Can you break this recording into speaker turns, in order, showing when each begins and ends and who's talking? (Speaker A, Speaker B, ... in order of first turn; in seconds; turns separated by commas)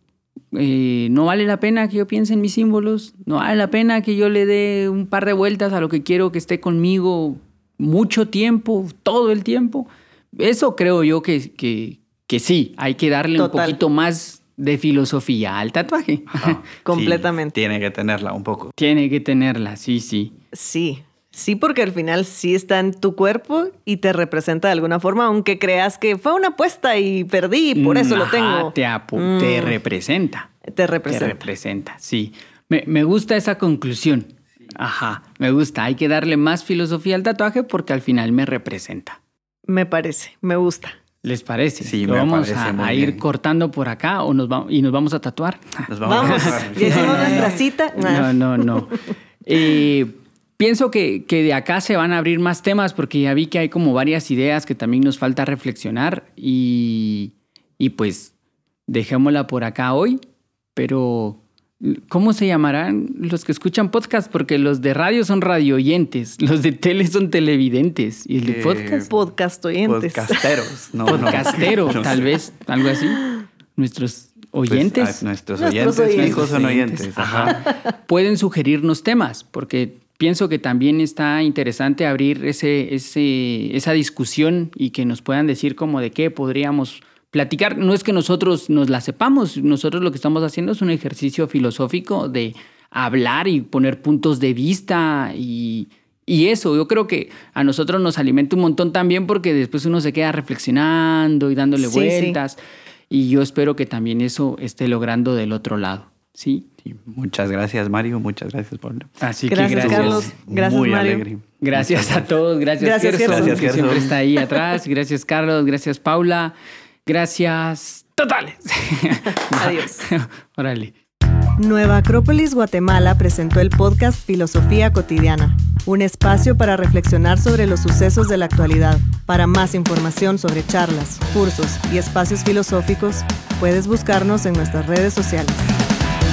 Speaker A: 0.5-16.6, Speaker B: 13.4-13.8, Speaker C: 16.3-18.7, Speaker B: 16.8-17.5, Speaker A: 18.8-20.3, Speaker B: 20.5-29.8, Speaker A: 27.8-30.5, Speaker B: 30.7-31.4, Speaker A: 31.1-39.2, Speaker B: 39.7-41.0, Speaker A: 41.2-58.3, Speaker C: 41.8-43.2, Speaker C: 45.9-47.5, Speaker B: 46.0-48.8, Speaker A: 58.9-60.2, Speaker A: 60.8-69.1, Speaker C: 68.4-69.1, Speaker B: 68.9-70.5, Speaker C: 69.8-72.3, Speaker A: 71.0-75.2, Speaker C: 74.7-77.6, Speaker B: 75.6-77.0, Speaker A: 76.1-102.6, Speaker B: 101.8-102.4, Speaker A: 103.1-106.7, Speaker C: 106.8-112.3, Speaker A: 109.2-110.2, Speaker B: 109.5-111.2, Speaker A: 111.6-116.5, Speaker B: 112.8-113.9, Speaker C: 113.2-114.1, Speaker A: 117.0-120.9, Speaker B: 119.5-120.1, Speaker B: 121.6-135.7